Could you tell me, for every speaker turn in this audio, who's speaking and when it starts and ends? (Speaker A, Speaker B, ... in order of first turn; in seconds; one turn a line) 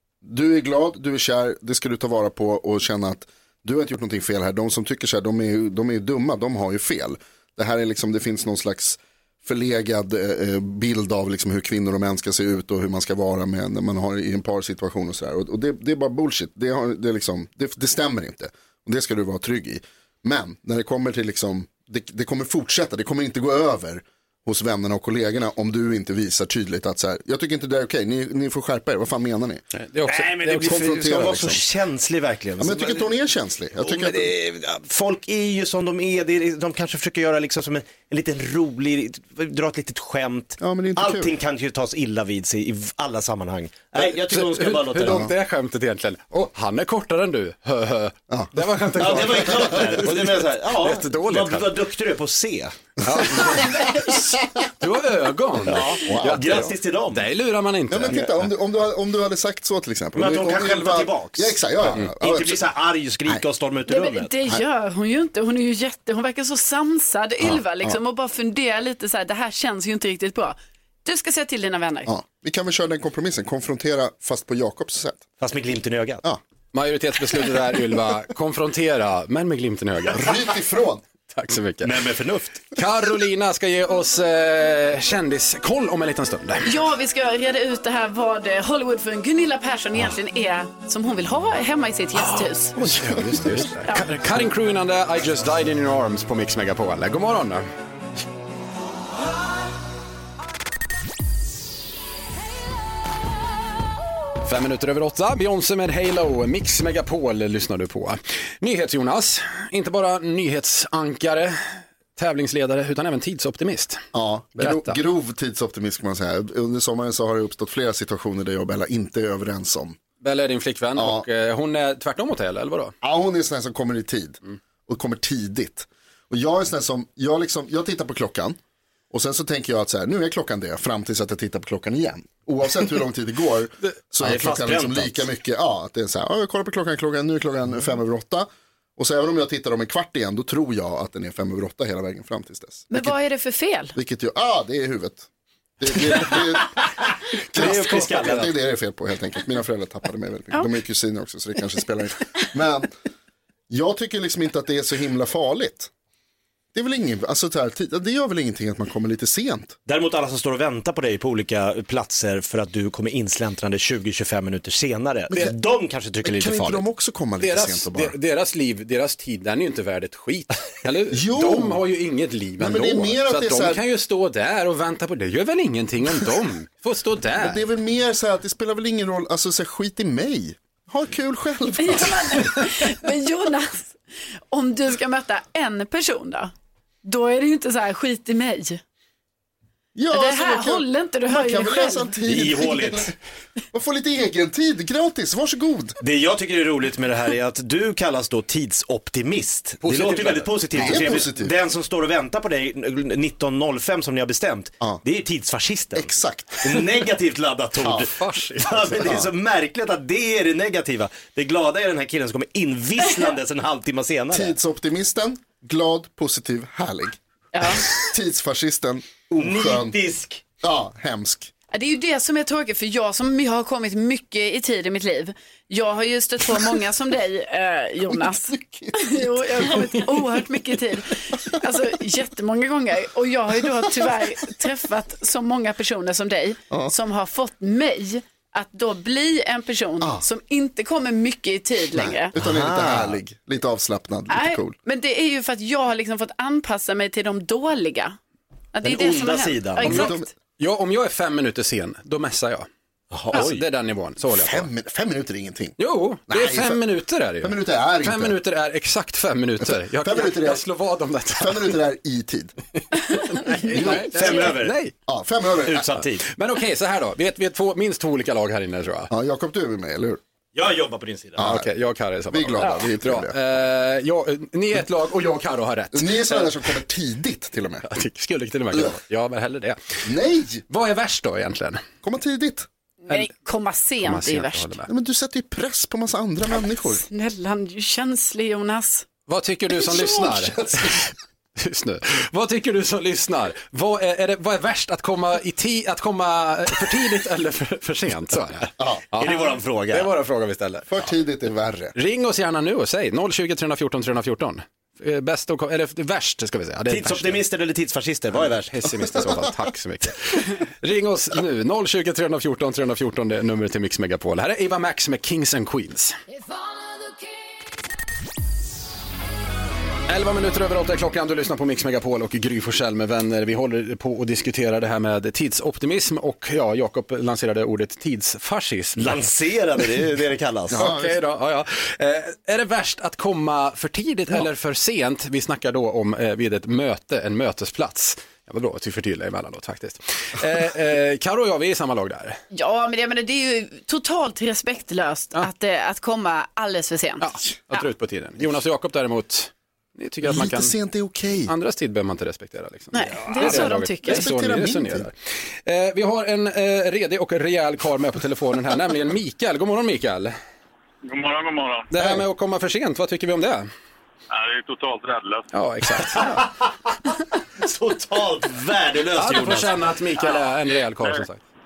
Speaker A: 0.2-29.6
Speaker B: 29.7-31.2
Speaker C: 30.1-33.1
Speaker A: 30.5-31.6
Speaker A: 32.6-34.3
Speaker C: 33.8-45.3
Speaker A: 40.6-41.3
Speaker B: 44.0-51.8
Speaker A: 45.0-45.3
Speaker A: 48.3-49.6
Speaker C: 49.0-52.7
Speaker A: 53.0-53.8
Speaker B: 53.0-58.5
Speaker C: 55.6-57.2
Speaker A: 55.7-56.7
Speaker A: 57.9-62.7
Speaker C: 60.1-64.3
Speaker D: 63.9-72.1
Speaker A: 67.4-68.0
Speaker A: 72.0-75.2
Speaker C: 75.4-76.2
Speaker B: 76.7-80.5
Speaker A: 80.1-81.0
Speaker B: 81.3-82.0
Speaker C: 81.8-82.7
Speaker B: 82.7-86.7
Speaker D: 86.6-92.8
Speaker B: 92.2-97.7
Speaker A: 92.8-93.7
Speaker B: 104.4-114.0
Speaker A: 114.1-120.0
Speaker B: 114.6-115.0
Speaker B: 120.2-122.9
Speaker A: 121.0-121.2
Speaker A: 123.0-128.6
Speaker A: 129.1-143.1
Speaker C: 134.2-135.2
Speaker D: 142.9-143.9
Speaker A: 143.9-145.3
Speaker A: 145.8-152.9
Speaker C: 147.5-148.5
Speaker A: 153.7-155.9
Speaker A: 156.7-159.8
Speaker C: 159.8-166.8
Speaker A: 166.2-168.1
Speaker B: 167.4-177.6
Speaker A: 171.1-171.8
Speaker A: 172.6-173.8
Speaker A: 177.3-182.5
Speaker D: 181.8-184.0
Speaker D: 184.5-186.5
Speaker D: 187.0-188.8
Speaker A: 189.9-193.1
Speaker D: 190.1-192.1
Speaker C: 192.2-193.1
Speaker A: 193.7-196.0
Speaker C: 196.0-206.1
Speaker B: 199.8-201.2
Speaker A: 200.8-201.5
Speaker A: 205.9-206.6
Speaker C: 206.6-214.5
Speaker A: 207.8-208.1
Speaker B: 208.0-209.2
Speaker A: 214.3-220.0
Speaker D: 217.5-217.8
Speaker C: 219.3-220.4
Speaker A: 220.6-221.5
Speaker D: 221.7-242.3
Speaker A: 228.1-230.1
Speaker A: 241.9-244.7
Speaker C: 242.3-243.2
Speaker D: 244.3-248.2
Speaker D: 248.7-250.3
Speaker C: 248.8-250.1
Speaker A: 249.8-250.3
Speaker B: 249.8-252.7
Speaker C: 253.1-253.6
Speaker B: 253.3-254.7
Speaker A: 254.3-255.8
Speaker B: 255.8-261.8
Speaker A: 256.3-256.8
Speaker A: 257.4-258.4
Speaker A: 259.6-260.6
Speaker A: 261.4-262.5
Speaker B: 263.1-264.9
Speaker A: 263.6-264.5
Speaker C: 263.7-264.8
Speaker A: 265.1-265.9
Speaker C: 265.6-266.2
Speaker B: 266.3-269.1
Speaker A: 269.1-270.2
Speaker C: 270.5-271.4
Speaker A: 271.4-271.7
Speaker B: 271.4-276.5
Speaker A: 272.3-273.3
Speaker A: 275.9-277.9
Speaker B: 277.9-280.0
Speaker A: 280.0-280.6
Speaker B: 280.7-281.8
Speaker A: 282.0-282.7
Speaker D: 283.1-284.7
Speaker B: 284.0-284.9
Speaker A: 284.9-287.0
Speaker D: 287.0-289.1
Speaker B: 289.3-301.0
Speaker A: 289.8-291.0
Speaker A: 298.8-299.0
Speaker C: 299.2-300.1
Speaker A: 300.9-301.9
Speaker B: 301.9-307.4
Speaker C: 306.9-308.9
Speaker B: 308.7-316.2
Speaker A: 309.0-309.5
Speaker B: 320.1-329.2
Speaker C: 329.0-330.8
Speaker A: 330.7-331.2
Speaker B: 330.8-342.4
Speaker D: 342.5-347.2
Speaker B: 347.2-350.7
Speaker A: 350.2-351.5
Speaker B: 351.5-360.3
Speaker D: 352.9-354.2
Speaker A: 353.3-355.1
Speaker E: 361.0-361.9
Speaker B: 361.9-363.7
Speaker E: 364.3-365.4
Speaker B: 365.5-366.5
Speaker C: 366.2-366.5
Speaker C: 367.6-369.8
Speaker B: 369.1-371.4